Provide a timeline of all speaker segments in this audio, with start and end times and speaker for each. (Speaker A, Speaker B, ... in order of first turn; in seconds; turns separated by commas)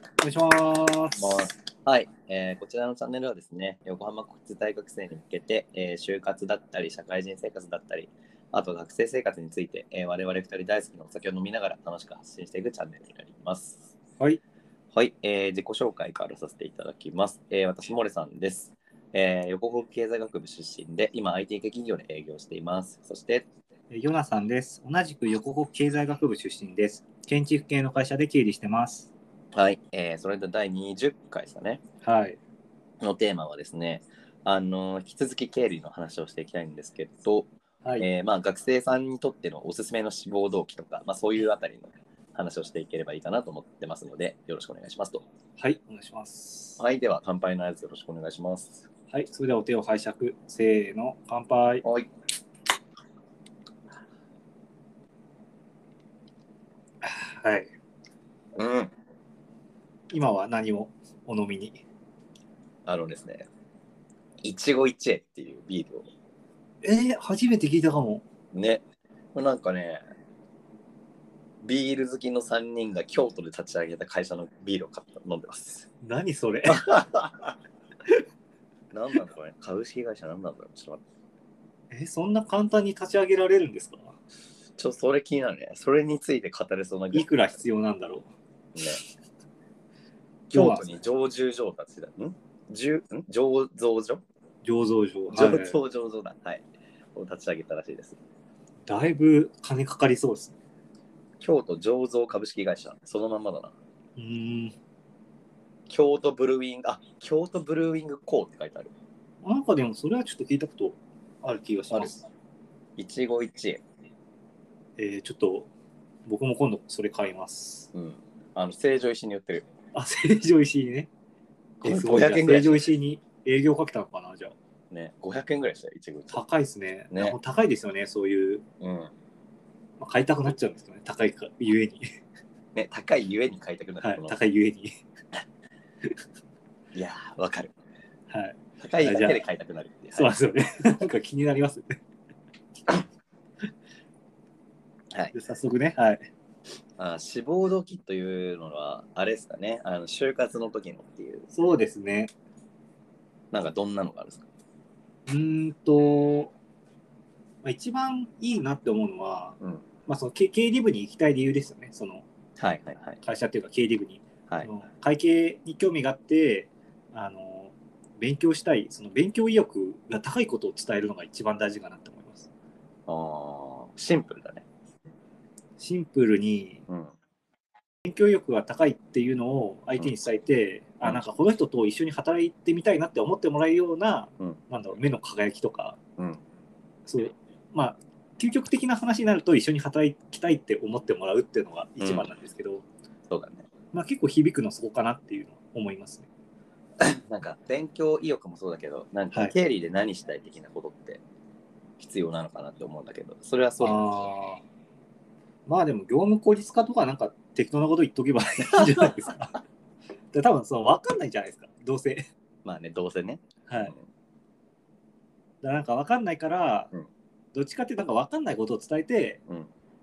Speaker A: 0.2-1.5, Speaker B: 1.2-13.9, Speaker B: 14.9-23.4, Speaker A: 23.9-29.1, Speaker B: 29.5-31.8, Speaker A: 32.0-32.4, Speaker B: 33.0-45.2, Speaker A: 45.6-46.8, Speaker B: 46.8-48.9, Speaker A: 49.1-51.8, Speaker B: 51.8-52.1, Speaker A: 57.0-57.7, Speaker B: 58.6-58.9, Speaker A: 60.1-61.8, Speaker B: 62.9-63.5, Speaker B: 64.4-66.1, Speaker A: 66.8-68.2, Speaker B: 68.5-68.8, Speaker B: 69.3-70.0, Speaker B: 71.6-75.9, Speaker A: 76.0-76.9, Speaker B: 76.7-77.6, Speaker B: 78.9-81.0, Speaker A: 81.9-84.1, Speaker B: 84.8-87.3, Speaker A: 87.1-88.3, Speaker B: 90.5-94.2, Speaker A: 90.5-90.9, Speaker A: 94.6-95.8, Speaker B: 95.3-96.6, Speaker B: 97.2-98.2, Speaker A: 98.9-100.5, Speaker B: 101.4-103.7, Speaker A: 104.2-104.8, Speaker B: 105.9-108.9, Speaker A: 109.4-112.2, Speaker B: 113.0-113.8, Speaker A: 115.0-115.7, Speaker A: 116.3-117.9, Speaker B: 117.9-119.7, Speaker A: 119.9-121.1, Speaker B: 121.8-122.9, Speaker A: 121.8-124.5, Speaker B: 124.9-126.4, Speaker A: 126.3-128.6, Speaker B: 127.1-127.4, Speaker B: 128.8-129.1, Speaker A: 130.0-132.1, Speaker B: 132.8-134.4, Speaker A: 134.0-134.9, Speaker B: 136.9-137.7, Speaker A: 138.3-139.4, Speaker B: 138.8-140.3, Speaker A: 140.1-142.0, Speaker A: 145.3-146.2, Speaker B: 147.0-151.5, Speaker A: 151.5-152.3, Speaker B: 153.5-154.5, Speaker A: 155.3-156.5, Speaker A: 157.6-162.2, Speaker B: 162.6-163.2, Speaker A: 163.2-172.5, Speaker B: 173.1-174.7, Speaker A: 175.8-176.8, Speaker B: 176.9-177.1, Speaker A: 178.1-186.0, Speaker A: 187.1-192.8, Speaker B: 192.0-192.3, Speaker B: 193.3-193.7, Speaker A: 193.9-196.3, Speaker B: 197.0-201.2, Speaker B: 202.0-204.3, Speaker A: 203.8-204.6, Speaker A: 205.7-209.6, Speaker A: 210.3-212.3, Speaker B: 212.7-214.1, Speaker A: 213.7-213.9, Speaker A: 215.6-216.9, Speaker A: 217.5-219.4